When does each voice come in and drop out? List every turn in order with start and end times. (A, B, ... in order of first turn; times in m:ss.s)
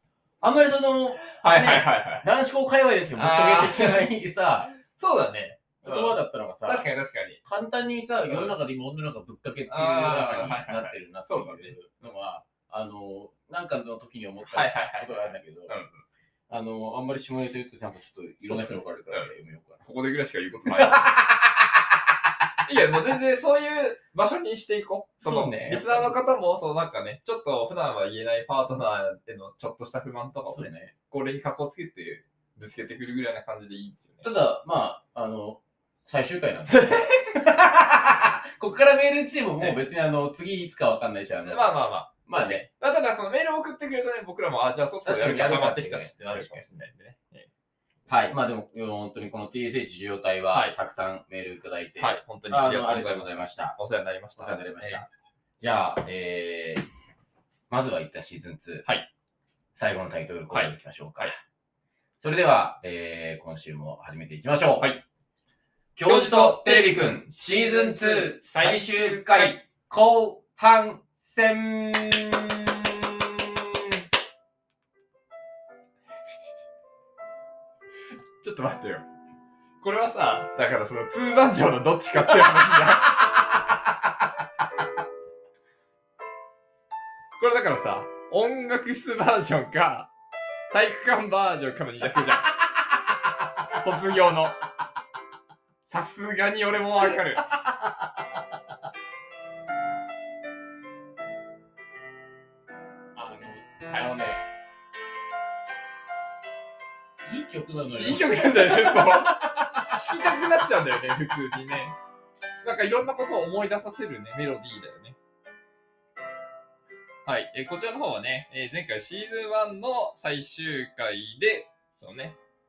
0:00.4-0:04.8 A
0:01.4-0:02.2 B
0:03.2-0:04.1 B
0:04.8-0:07.4 B
0:05.8-0:06.9 A
0:07.4-0:15.7 A
0:08.3-0:08.5 B
0:09.7-0:11.7 B
0:14.4-0:16.0 B
0:16.5-0:19.8 A
0:18.5-0:19.3 B
0:19.8-0:21.1 B
0:20.7-0:21.8 A
0:22.6-0:34.3 B
0:25.2-0:26.1 A
0:30.5-0:30.9 A
0:34.2-0:42.7 A
0:36.7-0:37.4 B
0:41.5-0:47.5 B
0:45.0-0:46.6 A
0:48.1-0:53.8 A
0:52.0-0:55.1 B
0:54.4-0:55.0 A
0:55.6-0:56.9 A
0:57.7-0:58.9 A
0:59.8-1:01.4 A
1:00.5-1:01.3 B
1:02.2-1:04.9 A
1:04.8-1:05.0 B
1:06.0-1:13.9 A
1:06.0-1:09.6 B
1:18.4-1:19.1 B
1:19.8-1:23.6 B
1:27.4-1:30.1 B
1:30.7-1:32.5 B
1:33.8-1:34.6 B
1:35.9-1:37.5 B
1:43.2-1:44.5 A
1:43.9-1:44.1 B
1:47.2-1:50.0 A
1:48.0-1:52.0 B
1:52.6-1:55.2 B
1:57.2-2:02.4 B